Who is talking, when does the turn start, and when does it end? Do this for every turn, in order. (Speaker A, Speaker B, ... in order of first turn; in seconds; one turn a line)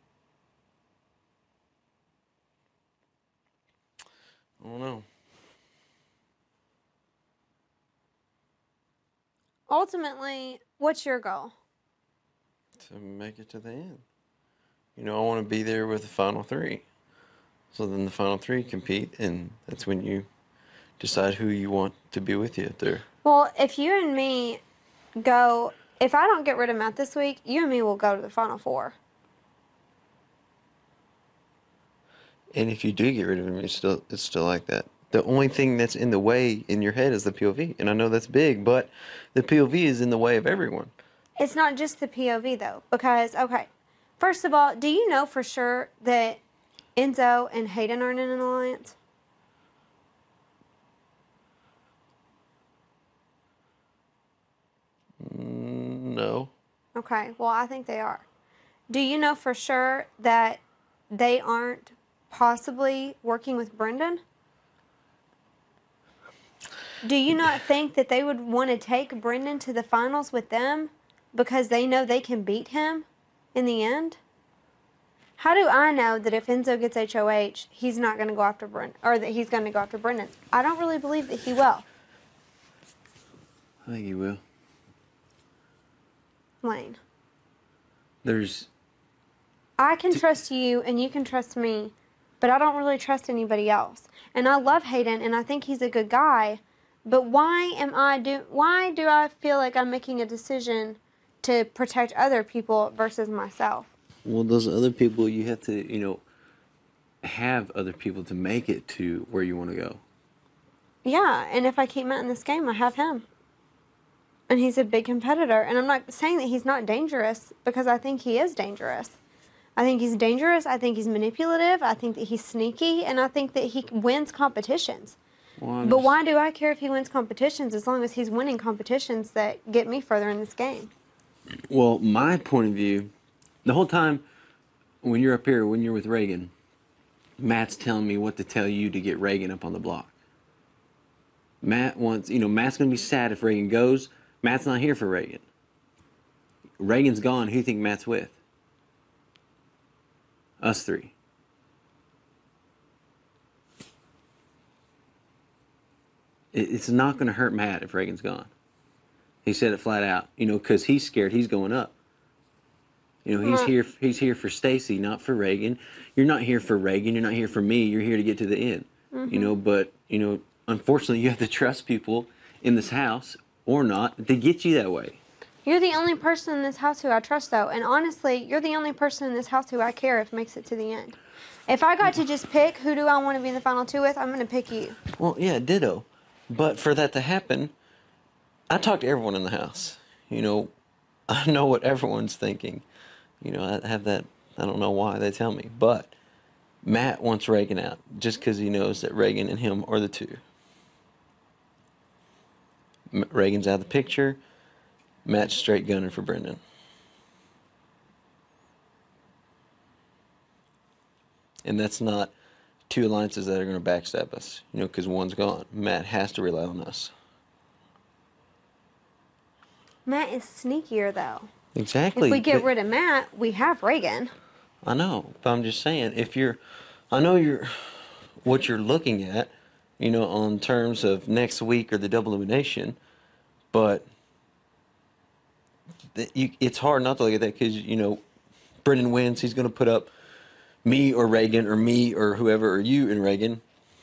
Speaker A: 4.6-5.0
Speaker B: 9.7-11.5
Speaker A: 12.8-14.0
Speaker A: 14.9-16.8
Speaker A: 17.7-20.3
Speaker A: 21.0-23.0
Speaker B: 23.2-24.6
Speaker B: 25.2-29.0
Speaker A: 32.5-40.9
Speaker B: 41.4-46.4
Speaker B: 47.0-49.0
Speaker A: 55.2-56.5
Speaker B: 57.0-58.2
Speaker B: 58.9-64.2
Speaker B: 67.0-74.2
Speaker B: 75.4-81.8
Speaker A: 83.8-84.4
Speaker B: 86.6-87.0
Speaker A: 88.2-88.7
Speaker B: 89.8-103.9
Speaker A: 104.2-106.2
Speaker A: 107.2-110.0
Speaker B: 111.0-113.2
Speaker B: 114.5-119.2
Speaker B: 119.8-125.2
Speaker A: 125.6-126.1
Speaker B: 125.8-130.9
Speaker A: 131.7-133.1
Speaker A: 133.6-134.2
Speaker A: 135.0-136.5
Speaker A: 137.4-140.1
Speaker A: 141.6-145.4
Speaker A: 146.8-148.4
Speaker A: 150.6-151.1
Speaker A: 156.5-158.5
Speaker A: 159.4-161.9
Speaker A: 163.2-175.2
Speaker B: 163.4-163.7
Speaker B: 169.1-169.5
Speaker B: 175.6-181.1
Speaker B: 181.7-185.0
Speaker A: 185.2-187.7
Speaker A: 188.7-190.7
Speaker A: 191.3-192.8
Speaker A: 193.4-196.1
Speaker A: 196.8-200.4
Speaker A: 203.1-204.4
Speaker A: 205.2-206.6
Speaker A: 211.6-212.3
Speaker A: 212.9-217.1
Speaker B: 220.1-221.5
Speaker A: 221.8-222.7
Speaker B: 222.1-224.3
Speaker A: 224.8-233.0
Speaker A: 233.7-234.1
Speaker A: 236.1-238.2
Speaker A: 238.8-240.1
Speaker A: 240.8-243.6